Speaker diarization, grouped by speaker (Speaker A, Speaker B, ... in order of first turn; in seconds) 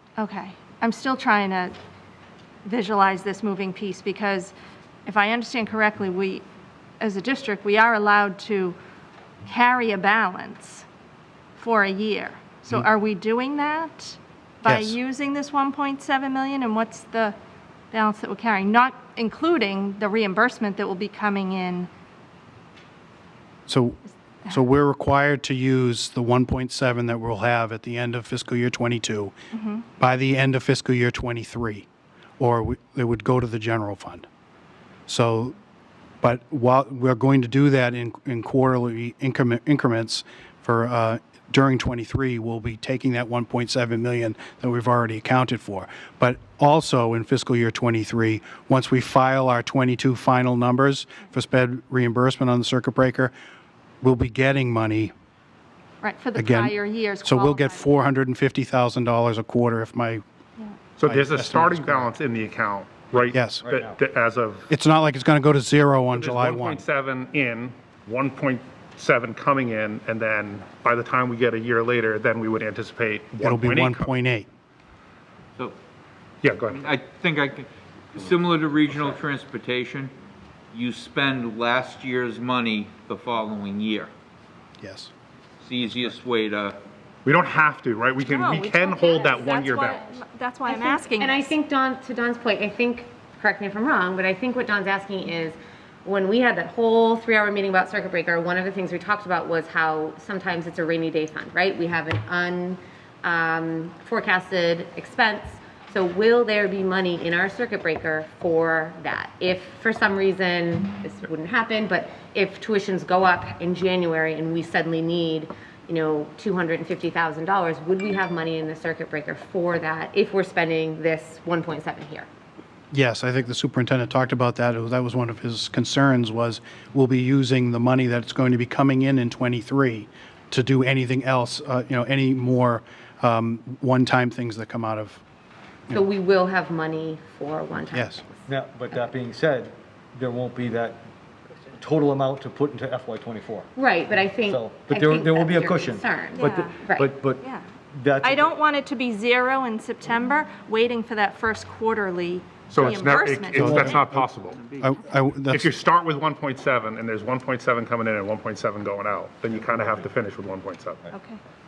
Speaker A: 0.2-1.7, 2.6-4.5, 5.0-6.4, 7.0-8.8, 9.4-10.8, 11.6-17.4, 17.9-21.9, 29.5-29.8, 56.0-57.9, 88.2-91.5, 146.3-146.8, 148.2-154.0, 161.1-161.4
Speaker B: 14.6-15.0, 23.7-29.3, 30.0-31.9, 32.4-34.3, 35.1-35.5, 36.2-53.3, 54.0-55.1, 56.4-60.2, 61.0-62.1, 63.3-63.6, 64.7-66.8, 73.4-74.5, 84.8-85.1, 122.9-135.2, 137.9-138.2, 153.5-154.2, 154.8-155.7
Speaker C: 61.0-64.7, 66.1-74.1, 76.4-76.9, 87.2-90.2, 152.7-154.7, 155.5-161.1
Speaker D: 63.6-64.0, 138.5-141.1, 141.7-143.7, 144.4-148.5, 159.7-160.0
Speaker E: 76.7-80.1, 80.7-84.1, 85.6-86.8
Speaker F: 90.7-122.3, 135.9-138.4, 143.8-147.1